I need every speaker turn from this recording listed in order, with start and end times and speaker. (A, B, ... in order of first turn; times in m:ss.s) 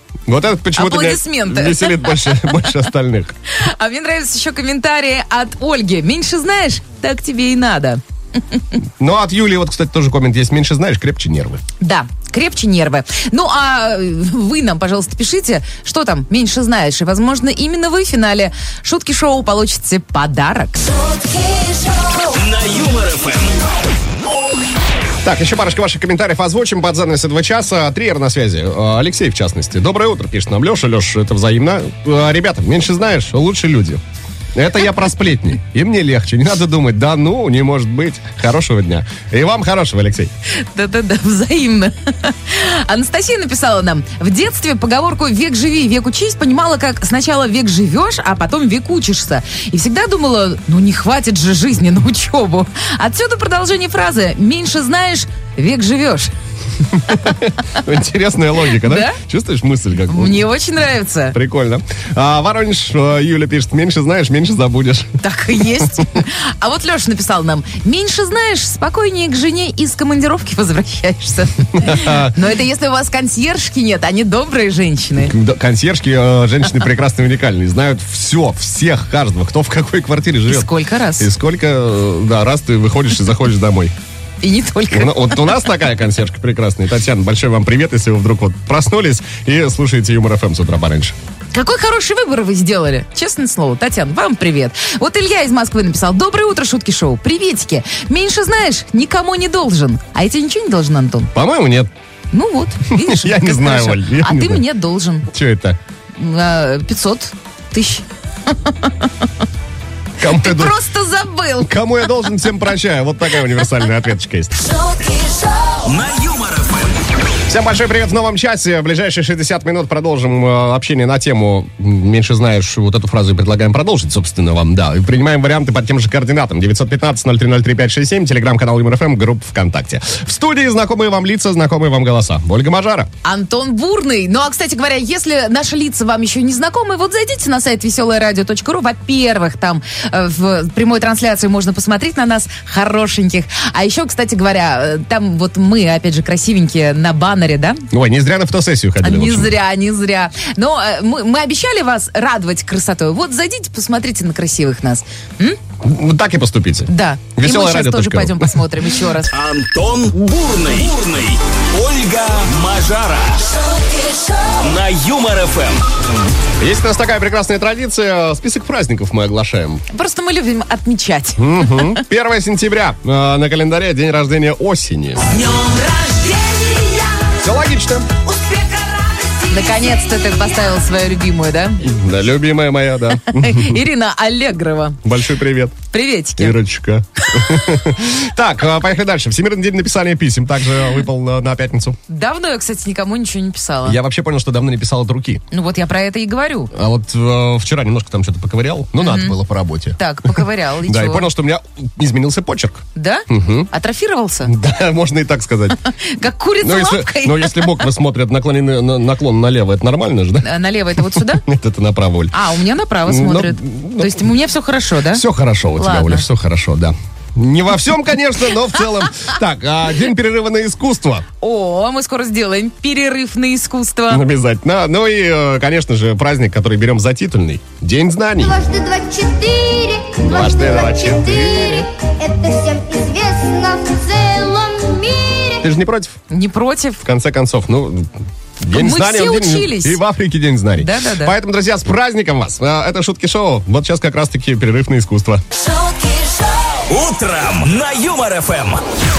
0:00.3-0:03.4 A
0:00.8-0:02.6 B
0:03.5-0:08.6 B
0:09.0-0:11.6 A
0:11.8-0:20.8 B
0:20.8-0:22.3 C
0:22.3-0:23.6 D
0:25.2-0:34.0 A
0:34.5-0:40.3 A
0:40.5-0:56.3 B
0:57.0-1:00.5 A
0:58.8-0:59.2 B
1:00.1-1:01.4 B
1:01.3-1:05.2 A
1:05.2-1:15.4 B
1:11.8-1:12.4 A
1:15.2-1:23.9 A
1:20.5-1:21.3 B
1:24.4-1:25.5 B
1:24.9-1:31.2 A
1:31.5-1:41.3 B
1:41.4-1:41.9 A
1:42.3-1:45.3 B
1:42.9-1:44.7 A
1:45.3-1:45.8 A
1:46.2-1:49.3 B
1:50.2-1:50.8 A
1:50.2-1:51.8 B
1:51.6-1:54.6 A
1:54.6-1:55.8 C
1:55.8-1:57.0 D
1:57.5-2:13.1 A
2:13.2-2:27.9 B
2:27.9-2:29.5 A
2:29.0-2:35.6 B
2:35.8-2:38.7 A
2:36.9-2:39.3 B
2:39.3-2:43.5 D
2:43.6-2:44.5 C
2:44.6-2:45.8 D
2:46.6-2:49.8 A
2:49.9-2:52.0 B
2:51.4-2:55.2 A
2:55.3-2:57.3 C
2:57.4-2:58.2 A
2:58.3-3:00.5 C
2:59.5-3:01.9 B
3:01.8-3:03.8 A
3:03.2-3:05.0 B
3:05.0-3:05.8 A
3:05.9-3:06.6 B
3:06.4-3:12.0 A
3:12.1-3:14.0 B
3:13.8-3:15.4 A
3:15.5-3:16.7 B
3:16.7-3:23.7 A
3:19.0-3:19.4 B
3:20.0-3:21.3 B
3:23.0-3:24.5 B
3:24.4-3:25.8 A
3:25.9-3:27.9 B
3:26.6-3:32.4 A
3:30.4-3:31.4 B
3:32.3-3:35.2 B
3:33.1-3:34.3 A
3:35.1-3:41.3 A
3:35.8-3:36.3 B
3:41.4-3:44.2 B
3:44.1-3:48.6 A
3:48.4-3:55.7 E
3:50.2-3:51.9 A
3:55.6-3:56.2 A
3:56.3-3:57.0 B
3:57.0-4:05.4 A
3:58.7-4:00.0 B
4:00.8-4:01.4 B
4:05.5-4:06.8 C
4:06.9-4:08.8 D